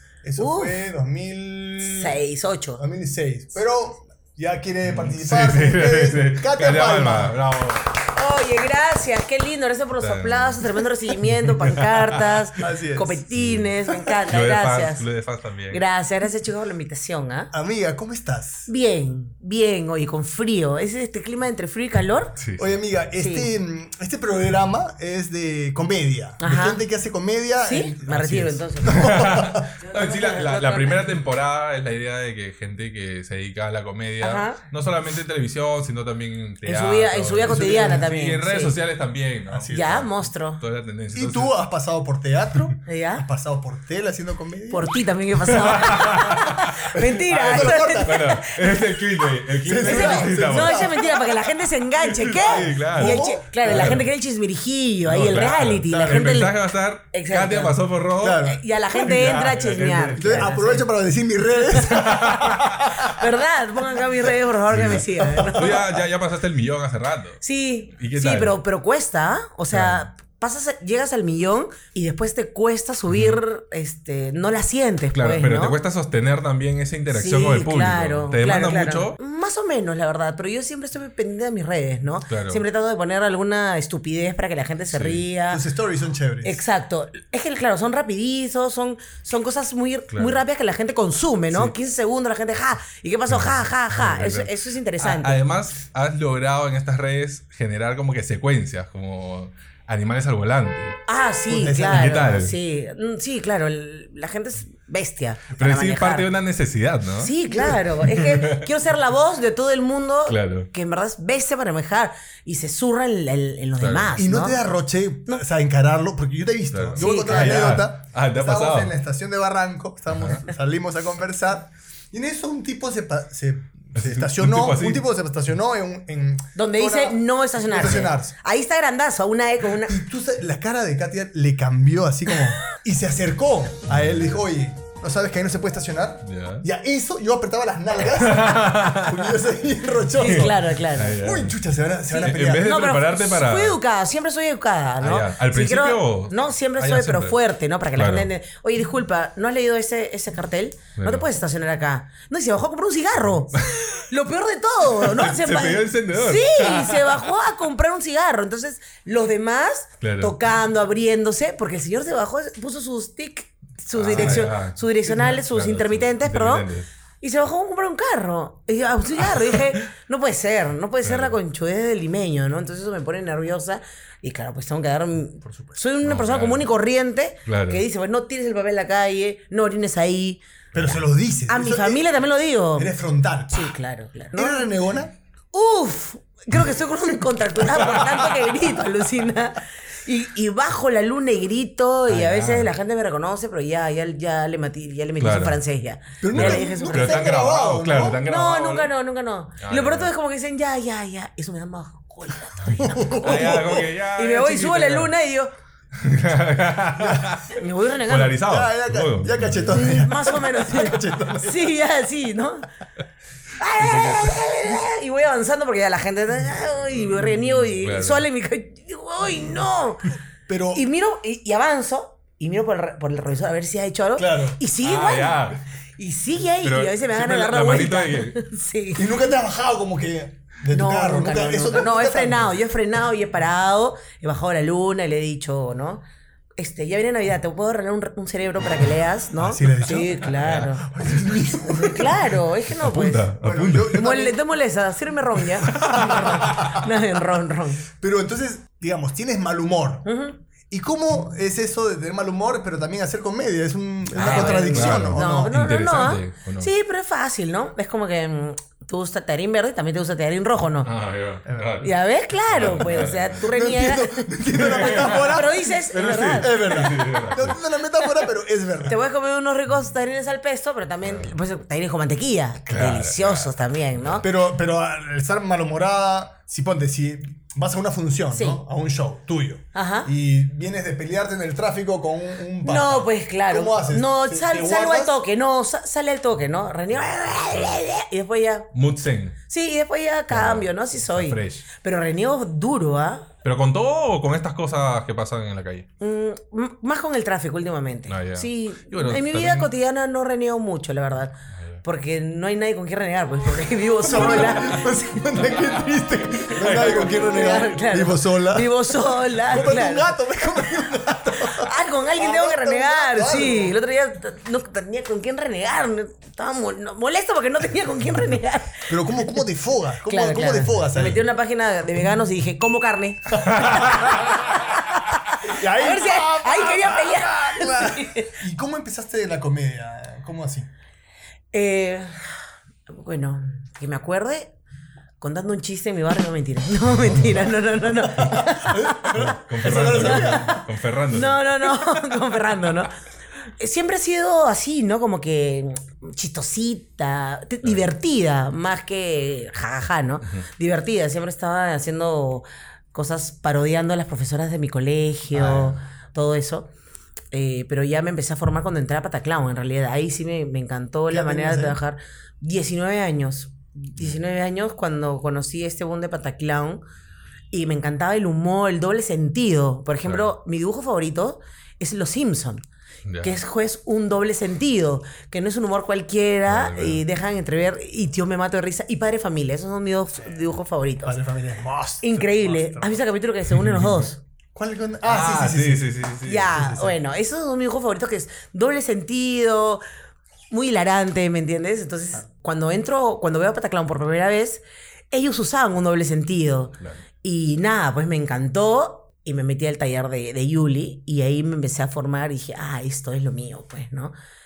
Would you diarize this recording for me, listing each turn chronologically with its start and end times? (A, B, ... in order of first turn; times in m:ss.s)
0:00.2-0:02.2 A
0:00.4-0:00.8 B
0:01.8-0:02.8 B
0:02.8-0:07.4 A
0:04.9-0:08.0 C
0:08.0-0:15.0 B
0:10.0-0:12.4 C
0:12.6-0:13.2 A
0:13.3-0:13.7 C
0:14.3-0:15.8 C
0:15.7-0:17.5 B
0:17.5-0:18.7 A
0:18.7-0:22.4 B
0:22.4-0:22.7 C
0:22.6-0:29.7 A
0:23.2-0:23.5 B
0:26.4-0:26.8 B
0:27.6-0:31.2 B
0:28.8-0:41.5 C
0:34.2-0:34.6 B
0:36.6-0:38.8 B
0:37.4-0:38.1 A
0:39.5-0:39.9 A
0:39.7-0:40.6 B
0:41.1-0:44.9 A
0:42.9-0:43.2 B
0:44.7-0:49.0 B
0:45.5-0:46.7 C
0:45.7-0:48.2 A
0:47.3-0:51.0 C
0:49.6-0:51.1 A
0:49.8-0:56.6 B
0:52.0-0:54.1 C
0:52.5-0:54.0 A
0:55.0-1:00.8 C
0:55.9-0:56.3 A
0:57.1-0:57.8 B
0:58.2-0:58.6 A
0:58.4-1:00.8 B
1:00.2-1:03.2 A
1:01.7-1:05.9 B
1:01.8-1:02.9 C
1:04.7-1:07.4 C
1:05.2-1:05.9 A
1:07.4-1:15.8 B
1:08.0-1:08.6 C
1:09.7-1:10.0 C
1:13.1-1:13.4 C
1:15.1-1:19.2 C
1:17.1-1:25.6 B
1:22.3-1:22.6 C
1:24.9-1:25.2 C
1:25.5-1:26.6 A
1:26.4-1:35.4 B
1:30.1-1:30.4 C
1:33.3-1:41.0 C
1:41.1-1:46.3 B
1:41.5-1:42.3 A
1:41.9-1:42.5 C
1:45.6-1:47.3 C
1:47.2-1:54.7 B
1:47.5-1:47.8 A
1:48.0-1:48.7 C
1:50.3-1:50.7 C
1:53.8-1:54.2 C
1:54.2-2:08.3 A
1:56.7-1:58.9 C
1:57.0-1:57.8 B
2:00.1-2:00.4 C
2:04.0-2:05.0 C
2:06.5-2:10.0 B
2:09.8-2:22.7 A
2:13.9-2:14.4 C
2:16.2-2:16.6 C
2:18.1-2:19.4 C
2:20.2-2:21.2 B
2:20.2-2:21.6 C
2:22.1-2:46.7 B
2:22.2-2:23.8 C
2:25.0-2:27.4 C
2:28.0-2:28.3 C
2:31.0-2:31.3 C
2:33.6-2:34.0 C
2:34.9-2:37.2 C
2:40.0-2:40.3 C
2:43.9-2:46.9 C
2:44.1-2:44.5 A
2:47.2-3:01.0 B
2:51.0-2:51.4 C
2:55.4-2:55.8 A
2:56.0-2:56.7 C
2:57.5-2:57.8 C
3:00.7-3:02.1 A
3:01.5-3:02.9 B
3:02.8-3:03.7 A
3:03.5-3:04.7 B
3:04.3-3:05.1 A
3:05.5-3:17.4 B
3:12.1-3:12.7 C
3:15.2-3:15.6 C
3:16.2-3:18.2 A
3:16.3-3:18.9 C
3:18.2-3:25.5 B
3:19.6-3:20.1 C
3:22.6-3:25.1 C
3:22.8-3:23.9 A
3:26.0-3:30.0 C
3:27.0-3:27.3 A
3:27.5-3:28.4 B
3:28.4-3:31.7 A
3:29.7-3:32.7 B
3:33.6-3:40.2 B
3:33.8-3:34.4 C
3:37.7-3:38.2 C
3:40.5-3:40.8 A
3:40.7-3:49.1 B
3:44.2-3:44.6 A
3:44.8-3:45.6 C
3:46.6-3:48.4 C
3:49.0-3:52.6 A
3:50.7-3:56.0 B
3:56.6-4:00.9 B
3:59.4-4:00.2 A
4:00.2-4:01.0 C
4:00.8-4:02.3 A
4:01.7-4:03.3 B
4:02.7-4:04.1 C
4:03.4-4:04.4 A
4:03.9-4:07.9 B
4:05.6-4:06.6 C
4:05.8-4:06.9 A
4:07.9-4:10.1 A
4:10.0-4:10.4 B
4:10.7-4:15.5 A
4:14.2-4:16.7 C
4:14.2-4:20.9 B
4:20.8-4:21.9 C
4:21.5-4:21.8 A
4:21.8-4:26.8 B
4:22.5-4:23.5 C
4:23.5-4:25.8 A
4:24.6-4:27.6 C
4:26.4-4:29.0 A
4:28.8-4:34.3 B
4:31.0-4:31.3 C
4:32.7-4:34.2 C
4:34.2-4:45.2 A
4:38.3-4:38.6 B
4:39.7-4:40.1 B
4:42.6-4:48.7 B
4:48.7-4:49.4 C
4:49.5-4:53.3 B
4:50.3-4:51.6 C
4:53.4-4:55.9 C
4:56.0-5:05.6 B
4:58.1-4:59.7 C
5:04.0-5:13.8 A
5:06.5-5:10.1 B
5:06.6-5:07.4 C
5:11.4-5:19.4 B
5:18.9-5:21.2 A
5:20.0-5:28.3 B
5:23.3-5:24.5 A
5:25.4-5:30.7 A
5:31.5-5:32.1 B
5:32.9-5:34.5 B
5:35.2-5:42.9 B
5:38.1-5:40.6 A
5:39.1-5:42.1 C
5:43.6-5:56.7 B
5:55.4-5:55.8 C
5:57.3-6:06.8 B
6:01.1-6:01.8 A
6:07.5-6:12.6 B
6:10.0-6:10.3 C
6:13.0-6:13.4 C
6:13.2-6:21.2 B
6:16.5-6:17.0 C
6:21.0-6:23.0 A
6:22.0-6:24.2 B
6:23.5-6:24.0 C
6:24.5-6:25.9 A
6:25.0-6:26.6 C
6:26.2-6:29.8 B
6:26.5-6:27.0 A
6:30.5-6:44.1 B